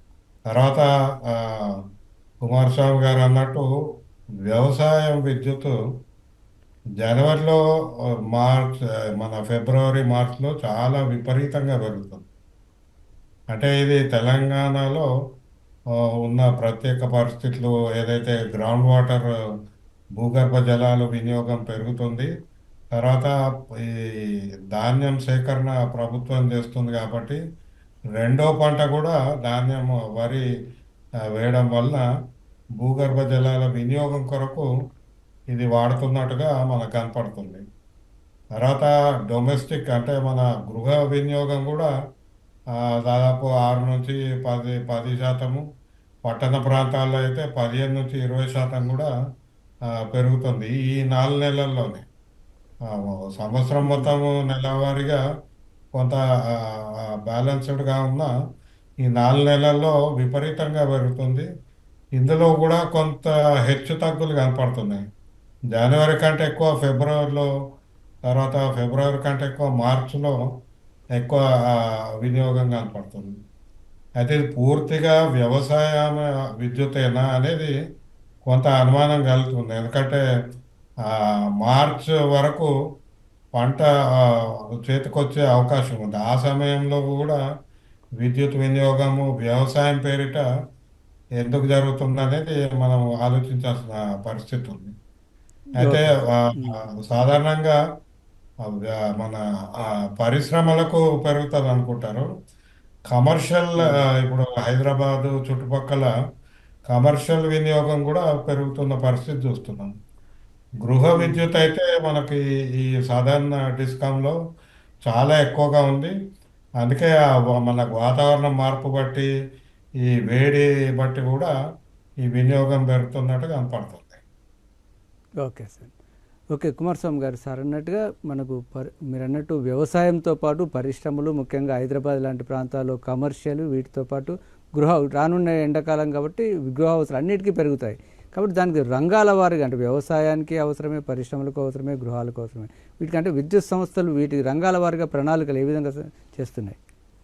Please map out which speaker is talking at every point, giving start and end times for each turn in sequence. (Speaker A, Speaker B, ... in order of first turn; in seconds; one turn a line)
Speaker A: 0.5-1.8
Speaker A: 2.4-3.6
Speaker A: 4.5-5.7
Speaker A: 7.0-7.6
Speaker A: 8.3-12.2
Speaker A: 13.5-15.1
Speaker A: 16.2-19.3
Speaker A: 20.2-22.3
Speaker A: 22.9-27.4
Speaker A: 28.2-30.4
Speaker A: 31.4-32.0
Speaker A: 32.8-34.7
Speaker A: 35.5-37.6
Speaker A: 38.6-41.9
Speaker A: 42.8-45.6
Speaker A: 46.2-49.1
Speaker A: 50.1-52.0
Speaker A: 52.9-55.2
Speaker B: 53.8-54.1
Speaker A: 56.0-58.3
Speaker A: 59.0-61.5
Speaker A: 62.2-65.0
Speaker A: 65.7-67.5
Speaker A: 68.3-70.4
Speaker A: 71.2-73.3
Speaker A: 74.2-77.7
Speaker A: 78.5-80.2
Speaker A: 81.1-82.7
Speaker A: 83.6-87.4
Speaker A: 88.2-90.4
Speaker A: 91.4-94.9
Speaker B: 95.8-96.8
Speaker A: 95.8-97.8
Speaker A: 98.7-99.4
Speaker A: 100.2-102.3
Speaker A: 103.1-106.1
Speaker A: 106.9-109.9
Speaker A: 110.8-114.4
Speaker B: 111.1-111.4
Speaker A: 115.1-116.1
Speaker A: 116.8-119.3
Speaker A: 120.1-121.5
Speaker A: 122.3-124.2
Speaker B: 125.4-125.9
Speaker B: 126.5-146.8